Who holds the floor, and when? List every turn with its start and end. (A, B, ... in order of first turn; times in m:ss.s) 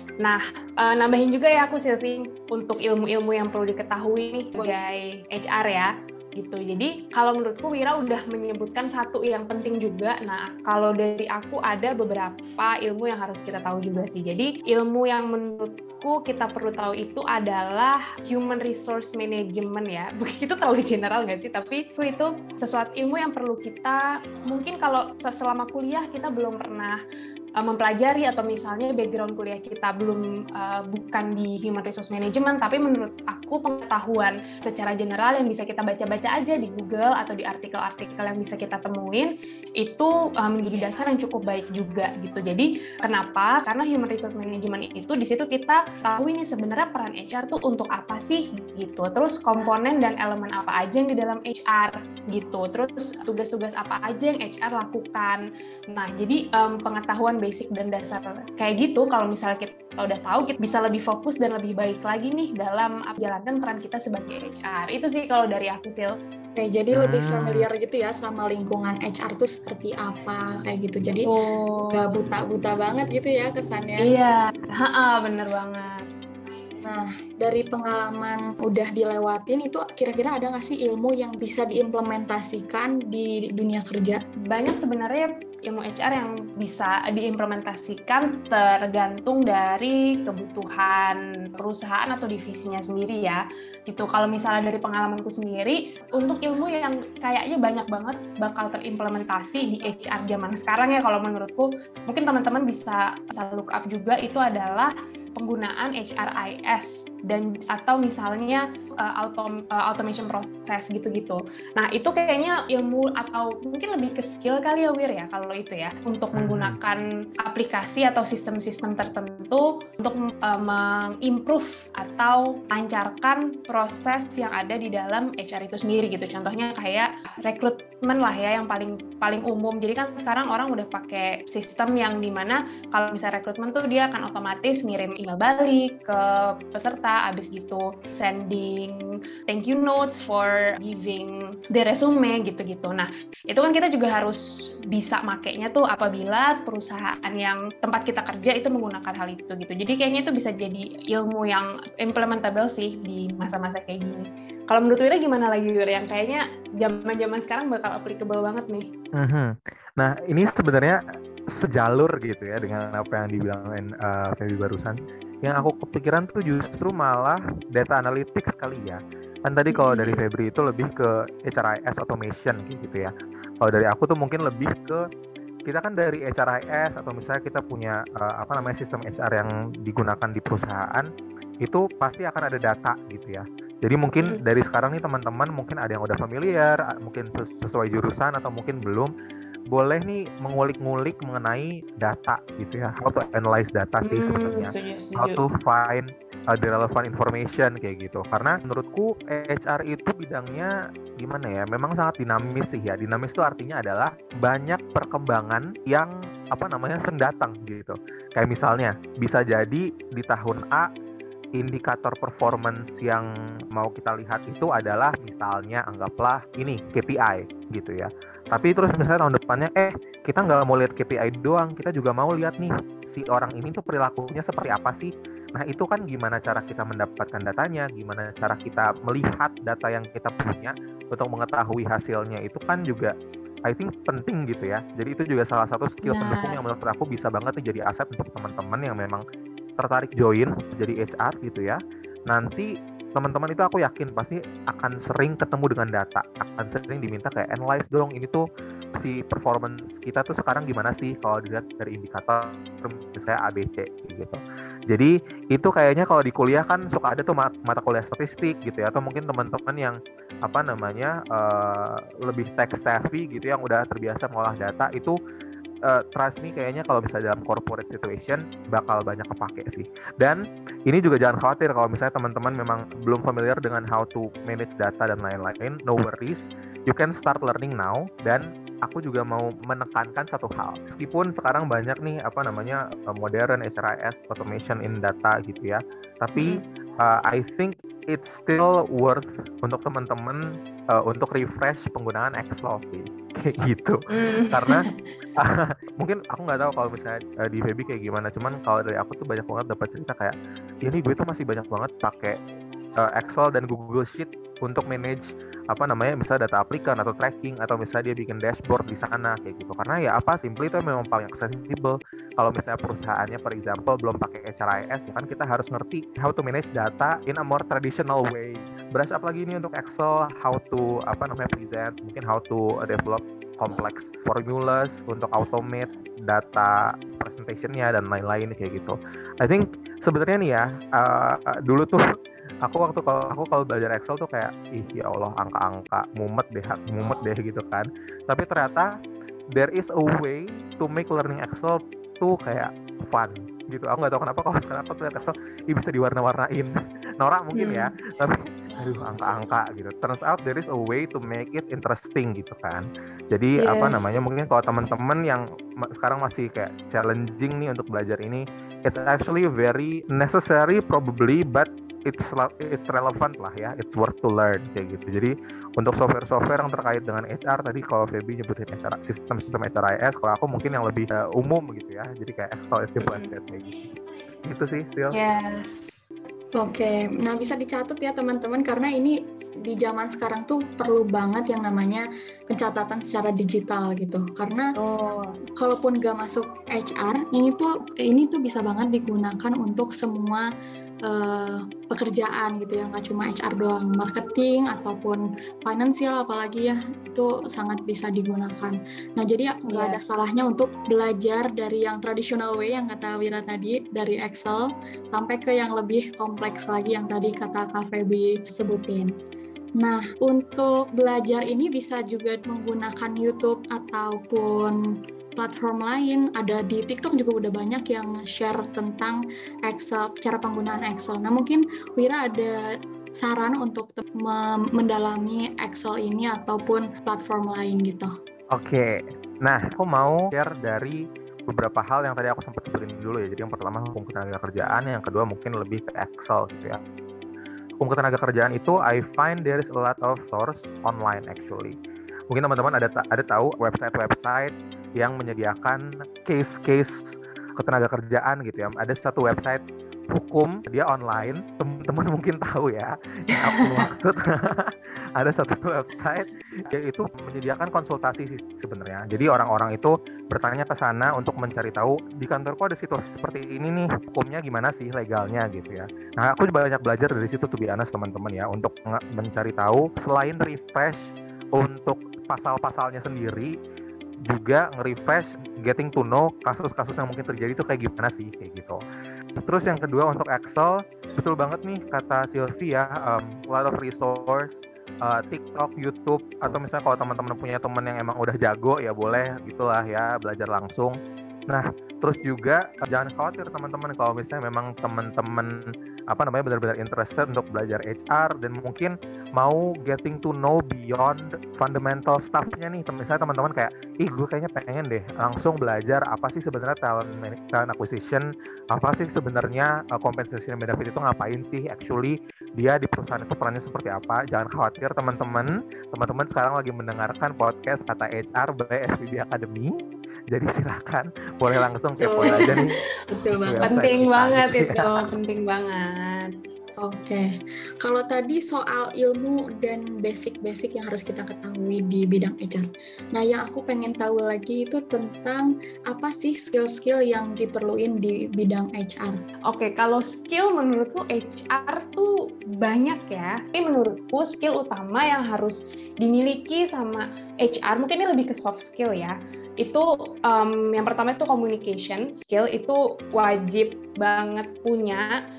0:00.2-0:27.0 A
0:04.5-0:04.8 B
0:27.6-1:06.1 A
1:06.6-1:11.3 B
1:06.9-1:07.6 C
1:11.2-1:12.0 A
1:11.9-1:14.1 B
1:14.0-1:16.1 A
1:16.8-1:24.2 B
1:24.5-2:38.9 A
1:56.4-1:56.8 C
2:39.1-2:41.0 C
2:41.5-2:55.0 C
2:49.7-2:50.2 A
2:55.6-3:01.1 C
3:01.6-3:09.1 C
3:09.7-3:30.9 C
3:14.0-3:15.4 A
3:31.5-3:53.1 C
3:53.6-3:59.2 C
3:56.0-3:56.6 A
3:59.8-4:25.2 C
4:25.8-4:54.8 C
4:46.3-4:46.6 A
4:54.1-4:55.1 A
4:55.4-5:02.4 C
5:03.0-5:32.0 C
5:32.6-5:38.9 C
5:37.0-5:37.3 A
5:39.5-6:13.8 C
5:47.5-5:47.9 A
5:53.6-5:54.0 A
6:13.0-6:13.3 A
6:14.4-6:15.2 C
6:15.1-6:15.9 A
6:16.6-6:24.7 B
6:24.8-6:25.3 A
6:25.6-6:30.4 B
6:31.0-6:49.1 B
6:39.7-6:40.0 A
6:49.8-6:54.8 B
6:55.4-7:02.5 B
7:03.1-7:08.1 B
7:08.5-7:16.8 C
7:17.8-7:21.7 C
7:22.3-7:29.6 C
7:30.1-7:53.5 C
7:33.3-7:33.8 A
7:54.2-7:58.8 C
7:59.4-8:11.0 C
8:11.5-8:15.6 C
8:16.1-8:39.8 C
8:40.3-8:42.8 C
8:42.0-8:43.8 B
8:42.3-8:42.6 A
8:43.4-8:44.8 C
8:43.6-8:46.3 A
8:46.8-8:47.3 B
8:47.8-8:59.2 B
8:59.5-9:15.1 A